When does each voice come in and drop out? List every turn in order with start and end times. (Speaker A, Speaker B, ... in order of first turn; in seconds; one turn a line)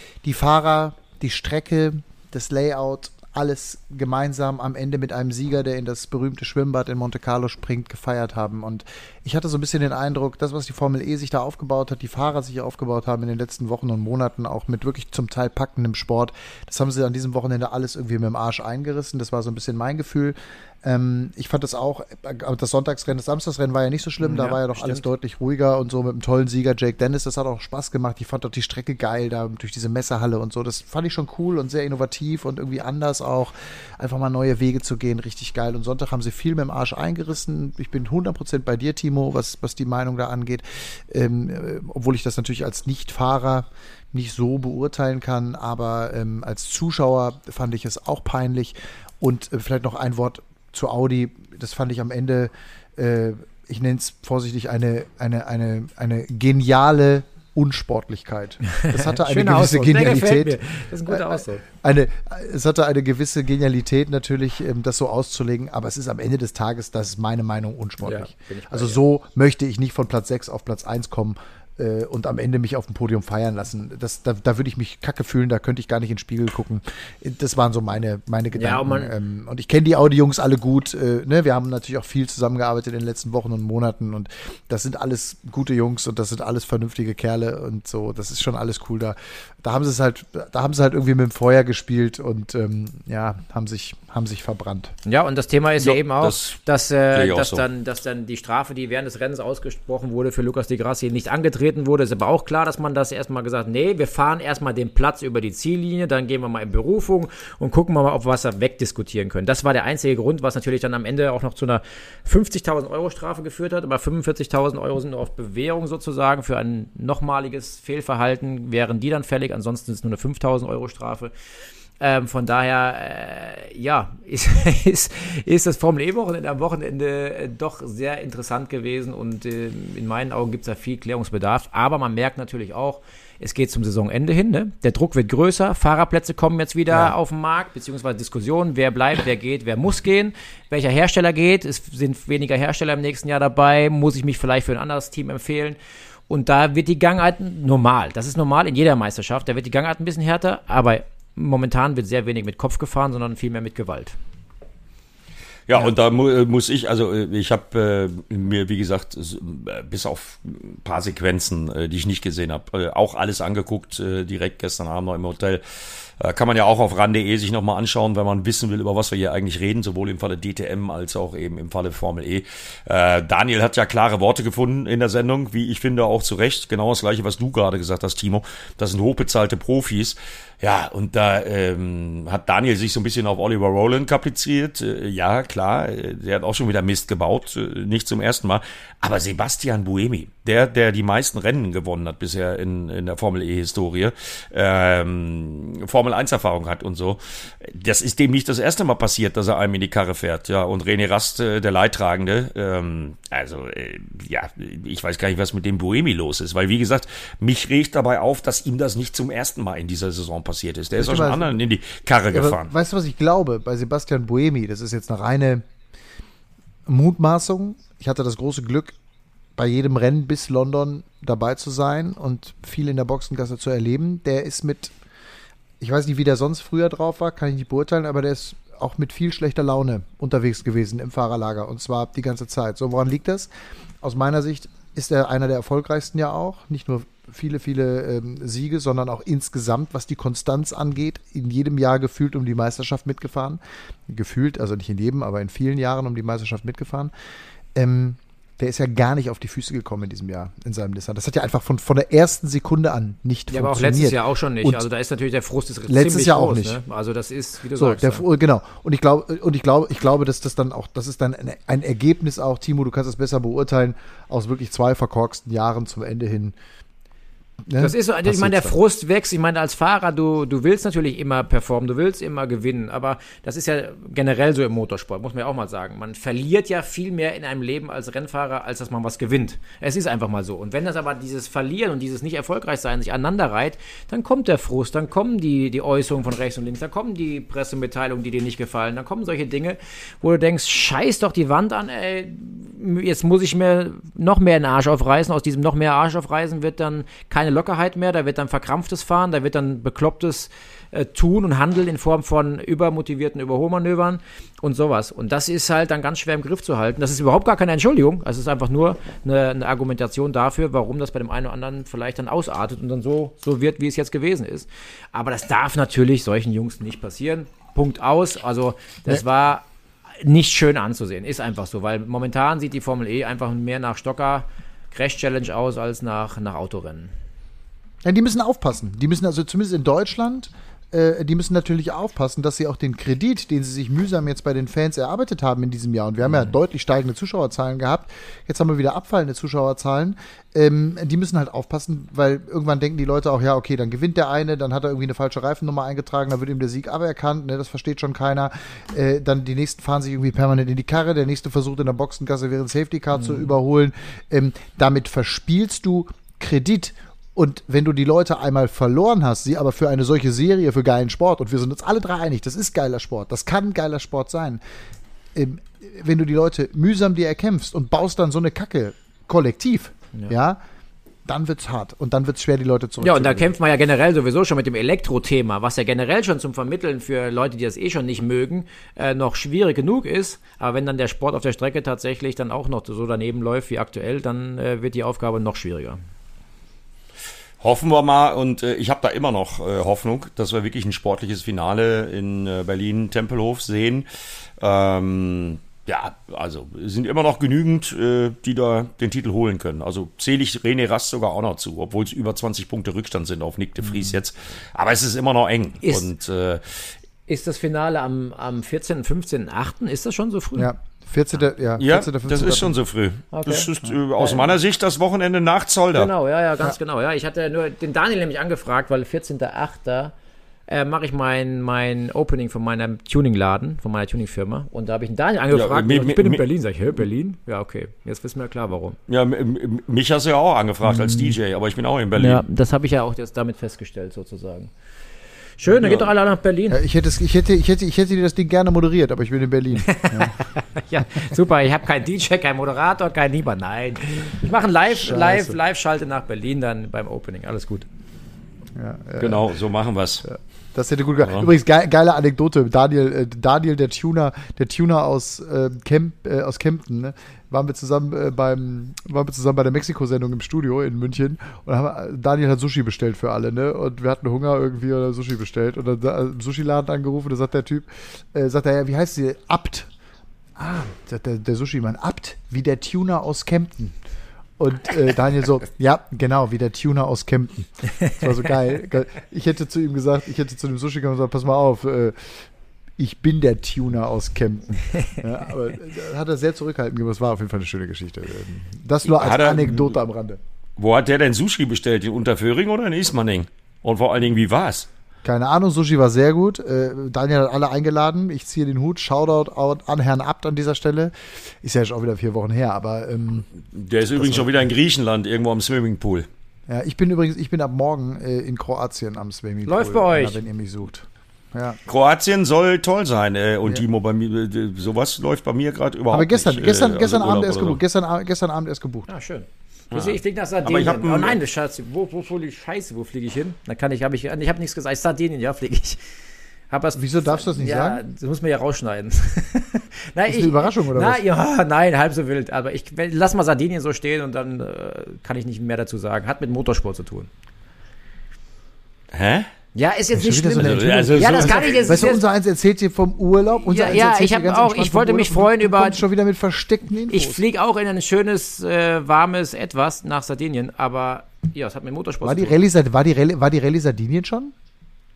Speaker A: 0.2-94.9
Speaker B: 24.2-25.0
Speaker B: 58.8-61.6
Speaker B: 68.0-69.0
Speaker B: 78.5-79.1
Speaker B: 95.1-121.3
Speaker C: 95.8-96.6
Speaker C: 97.1-97.6
Speaker B: 122.0-145.8
Speaker B: 146.3-154.2
Speaker C: 155.7-165.6
Speaker C: 166.2-212.7
Speaker A: 211.0-211.5
Speaker A: 212.3-215.7
Speaker A: 216.9-218.9
Speaker A: 219.6-224.9
Speaker A: 225.8-233.5
Speaker A: 234.0-247.1
Speaker A: 247.8-254.8
Speaker B: 253.5-258.2
Speaker A: 255.9-256.8
Speaker A: 257.8-266.6
Speaker A: 267.7-268.8
Speaker B: 267.8-319.6
Speaker B: 320.2-327.1
Speaker A: 328.0-364.6
Speaker B: 353.2-353.5
Speaker A: 365.3-370.6
Speaker A: 371.3-373.5
Speaker B: 373.0-386.0
Speaker C: 387.6-394.1
Speaker C: 394.6-406.9
Speaker B: 405.8-406.1
Speaker B: 407.3-410.7
Speaker A: 410.6-412.8
Speaker C: 411.8-416.1
Speaker B: 413.3-414.5
Speaker B: 415.9-420.1
Speaker B: 420.7-429.0
Speaker C: 425.5-426.4
Speaker C: 429.1-432.4
Speaker B: 430.9-431.3
Speaker B: 432.2-434.7
Speaker B: 435.6-436.8
Speaker C: 435.7-436.1
Speaker A: 436.7-440.4
Speaker B: 439.8-447.9
Speaker A: 444.9-445.6
Speaker A: 448.8-449.5
Speaker C: 449.2-450.2
Speaker A: 450.2-469.9
Speaker C: 451.2-451.5
Speaker A: 470.6-474.0
Speaker A: 474.6-482.5
Speaker A: 483.0-490.4
Speaker C: 489.2-489.9
Speaker C: 490.8-494.9
Speaker A: 495.2-503.5
Speaker C: 503.7-506.3
Speaker A: 504.2-504.5
Speaker A: 506.7-511.8
Speaker B: 509.7-510.4
Speaker C: 511.9-517.8
Speaker A: 516.1-519.1
Speaker B: 519.1-526.0
Speaker C: 519.9-521.4
Speaker B: 526.7-537.3
Speaker A: 527.0-528.0
Speaker A: 530.3-531.2
Speaker C: 539.1-539.5
Speaker B: 539.8-542.2
Speaker A: 540.2-547.4
Speaker C: 540.6-542.0
Speaker B: 543.6-546.0
Speaker B: 547.1-552.6
Speaker A: 552.2-554.5